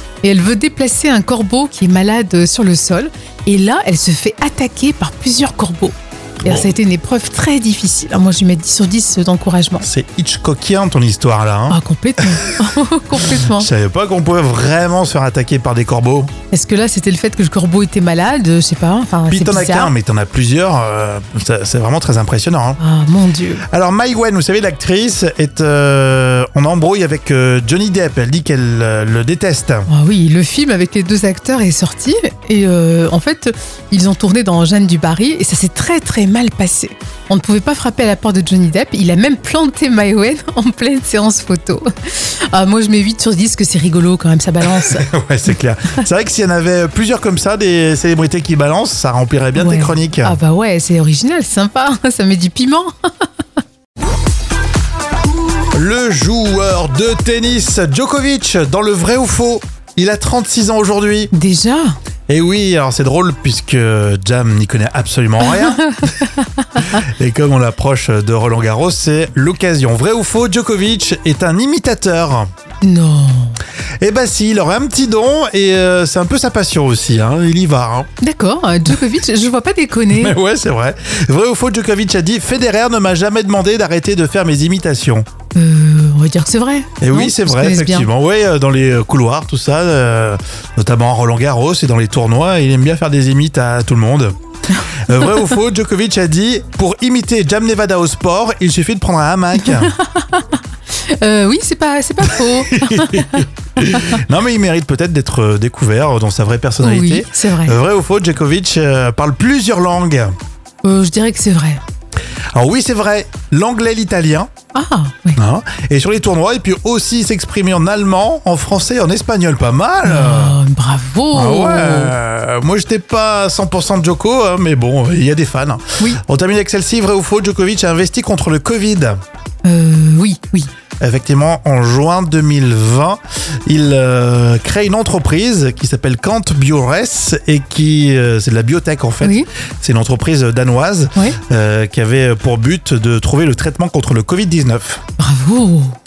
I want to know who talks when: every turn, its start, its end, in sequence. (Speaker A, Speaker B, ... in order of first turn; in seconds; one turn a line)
Speaker A: 0.2-9.8
Speaker B: 6.4-6.7
Speaker B: 9.8-11.8
Speaker A: 11.7-13.7
Speaker B: 13.6-16.3
Speaker A: 16.5-19.9
Speaker B: 19.3-22.8
Speaker A: 22.8-23.6
Speaker B: 23.7-29.9
Speaker A: 29.9-45.1
Speaker B: 45.0-50.4
Speaker A: 49.5-52.9
Speaker B: 55.7-61.3
Speaker A: 61.3-61.9
Speaker B: 62.3-65.9
Speaker A: 65.9-67.0
Speaker B: 67.0-72.5
Speaker A: 72.8-73.6
Speaker B: 74.0-78.1
Speaker A: 78.2-80.3
Speaker B: 80.1-85.2
Speaker A: 85.5-88.1
Speaker B: 87.0-94.3
Speaker B: 95.1-99.9
Speaker A: 99.6-100.5
Speaker A: 101.0-104.0
Speaker B: 102.7-110.3
Speaker A: 106.8-107.8
Speaker A: 110.8-111.8
Speaker B: 112.5-114.5
Speaker A: 114.7-115.4
Speaker B: 115.4-120.6
Speaker A: 120.0-122.1
Speaker B: 121.3-129.2
Speaker A: 129.6-130.7
Speaker B: 131.0-145.0
Speaker A: 139.2-139.5
Speaker A: 141.2-141.4
Speaker A: 145.2-145.9